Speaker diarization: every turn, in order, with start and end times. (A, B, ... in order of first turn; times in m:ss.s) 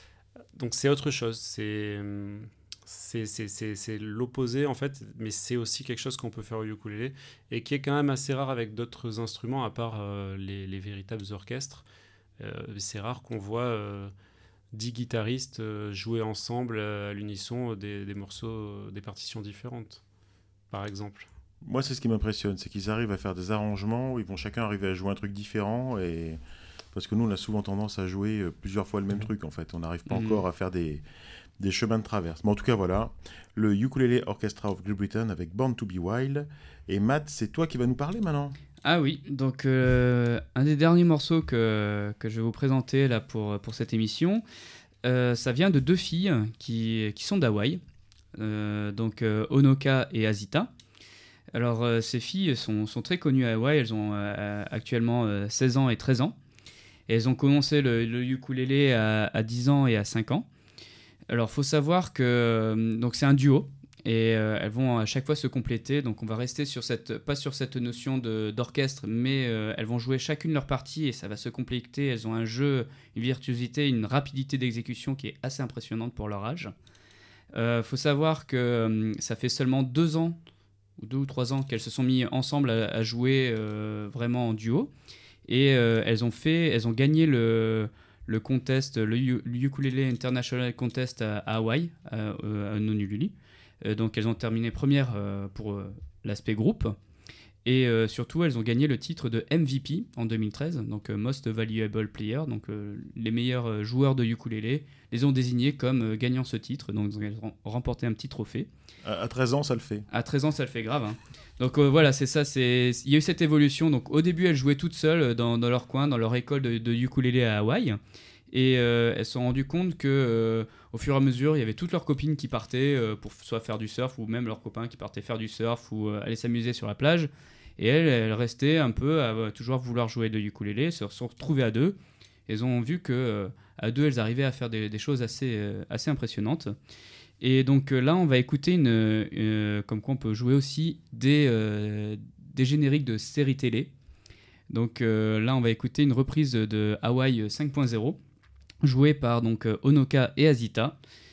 0:00.6-0:11.8 A
0:12.4-0:14.1 A
0:14.7-0:20.0 A
0:20.7-0:21.3 A
0:21.6-0:26.4 B
0:26.9-0:31.0 B
0:30.1-0:30.4 C
0:31.6-0:38.6 B
0:38.8-0:44.4 C
0:45.0-0:47.8 C
0:48.4-0:50.7 C
0:51.5-0:56.4 C
0:57.1-1:00.5 C
1:01.3-1:16.7 C
1:17.5-1:20.4 C
1:21.0-1:24.9 C
1:25.5-1:33.3 C
1:33.8-1:37.0 C
1:37.6-1:48.7 C
1:49.0-1:50.1 B
1:50.1-1:58.0 C
1:58.5-2:12.0 C
2:12.5-2:16.7 C
2:17.4-2:23.9 C
2:24.7-2:28.2 C
2:28.8-2:31.0 C